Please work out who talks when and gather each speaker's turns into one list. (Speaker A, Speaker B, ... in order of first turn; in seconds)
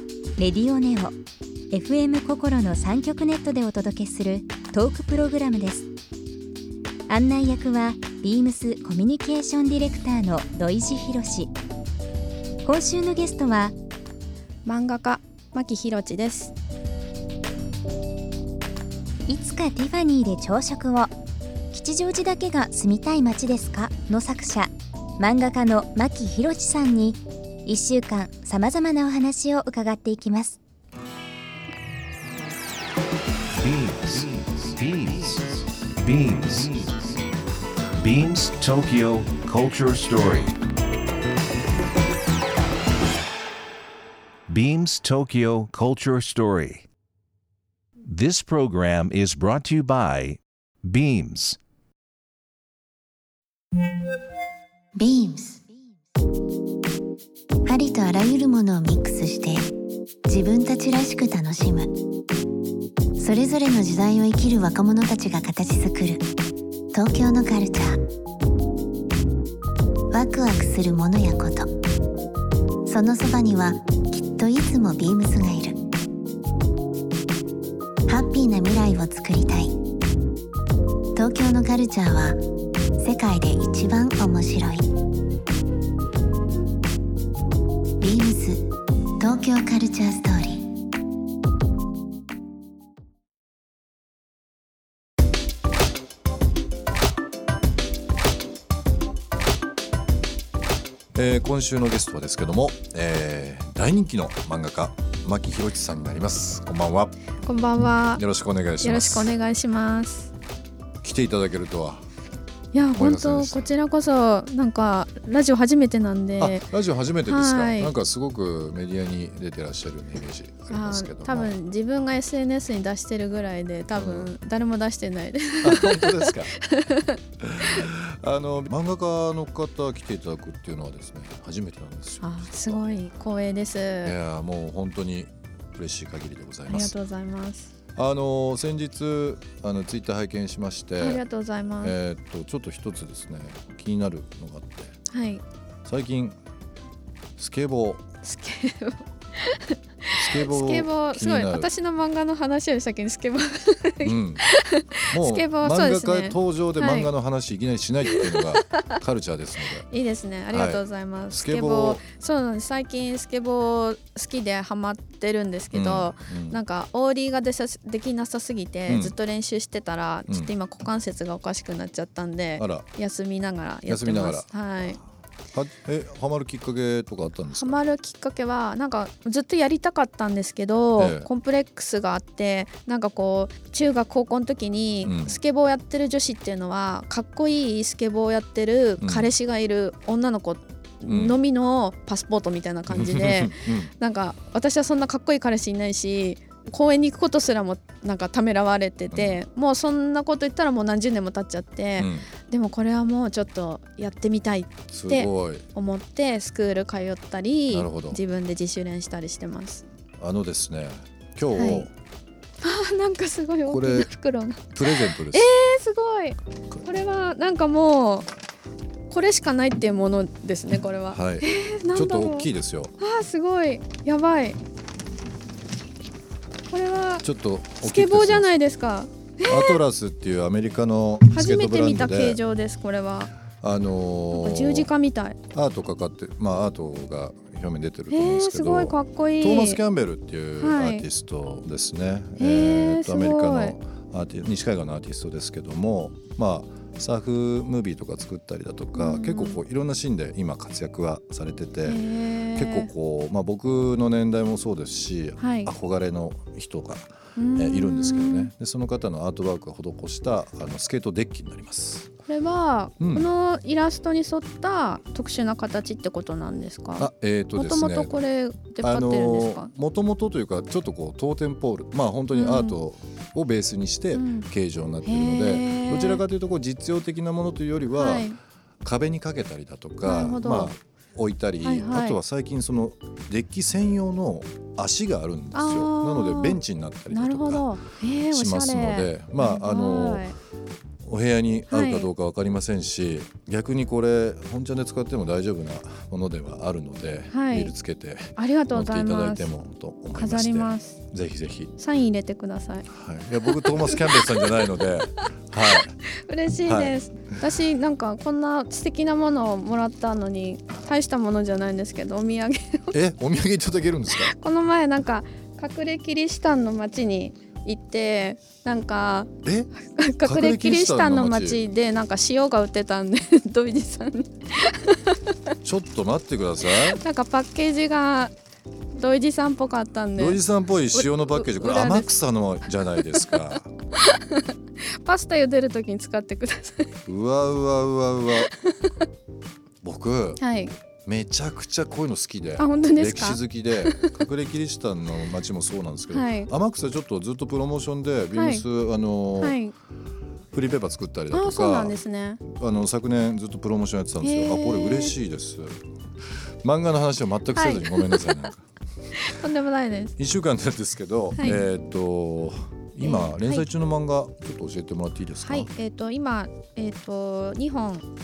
Speaker A: 0.4-1.1, 1.7-5.9, 7.1-11.5, 12.6-13.8, 19.3-21.1, 21.7-30.6
Speaker B: 14.6-16.5, 107.4-108.2, 108.8-110.3, 112.7-116.6, 117.2-117.9, 120.7-127.2, 132.2-134.1, 136.7-137.7, 141.0-141.9, 145.1-145.4, 148.2-157.1, 158.1-158.8, 159.9-175.0, 177.5-209.8, 211.5-211.9, 212.6-218.3, 219.1-222.5, 223.0-224.6, 226.7-227.2, 227.8-229.8, 231.3-233.4, 234.3-235.4, 238.1-239.8, 240.6-241.0, 242.4-243.7, 249.0-249.6, 251.8-252.9, 255.4-255.7, 257.4-258.5, 262.3-269.7, 272.3-272.8, 274.1-274.4, 275.0-276.2, 277.9-278.4, 280.0-280.8, 281.6-282.2, 285.5-290.4, 291.7-292.1, 297.3-297.7, 298.4-299.5, 300.1-301.0, 301.8-302.9, 303.4-304.6, 305.7-312.9, 314.1-319.3, 319.8-325.3, 326.7-328.3, 328.9-330.4, 330.9-332.1, 333.0-333.3, 333.9-334.4, 335.0-336.9, 338.3-338.9, 340.4-340.7, 342.6-344.1, 346.1-346.5, 348.3-348.6, 349.4-349.7, 351.3-352.4, 354.2-355.1, 357.5-358.3, 359.1-360.1, 361.4-361.6, 363.0-363.7, 365.4-368.1
Speaker C: 33.6-37.2, 38.0-40.5, 44.5-46.8, 48.0-51.6
Speaker D: 55.0-55.6, 57.6-59.7, 60.2-62.0, 63.1-66.3, 66.9-68.0, 70.1-71.7, 72.8-75.8, 78.1-79.8, 81.1-82.4, 83.0-84.9, 88.0-90.8
Speaker E: 101.1-107.2, 108.2-109.3, 111.0-112.1, 113.0-113.7, 116.4-121.6, 124.0-124.3, 125.6-126.5, 127.4-133.0, 134.0-136.9, 137.9-141.2, 141.8-144.9, 145.8-146.3, 147.4-148.0, 150.1-151.7, 154.0-154.4, 155.1-159.8, 160.5-162.0, 165.7-166.6, 168.9-169.2, 172.6-172.8, 173.9-174.5, 175.5-177.8, 181.0-181.3, 185.0-185.3, 189.0-189.3, 191.1-191.4, 192.9-193.9, 199.1-199.4, 202.0-202.3, 204.9-205.7, 207.7-208.2, 210.2-211.9, 213.7-214.1, 214.7-215.5, 221.1-222.9, 227.2-228.6, 229.4-232.4, 233.5-234.9, 235.5-262.1, 263.0-263.3, 267.0-268.1, 268.8-278.3, 278.8-287.8, 288.3-290.2, 291.1-301.7, 302.9-305.9, 306.6-307.4, 312.9-314.3, 319.4-319.7, 320.2-321.6, 325.6-327.0, 330.2-333.7, 337.1-338.5, 339.8-340.4, 341.1-349.6, 350.5-351.9, 352.5-355.8, 356.6-358.6, 360.2-365.7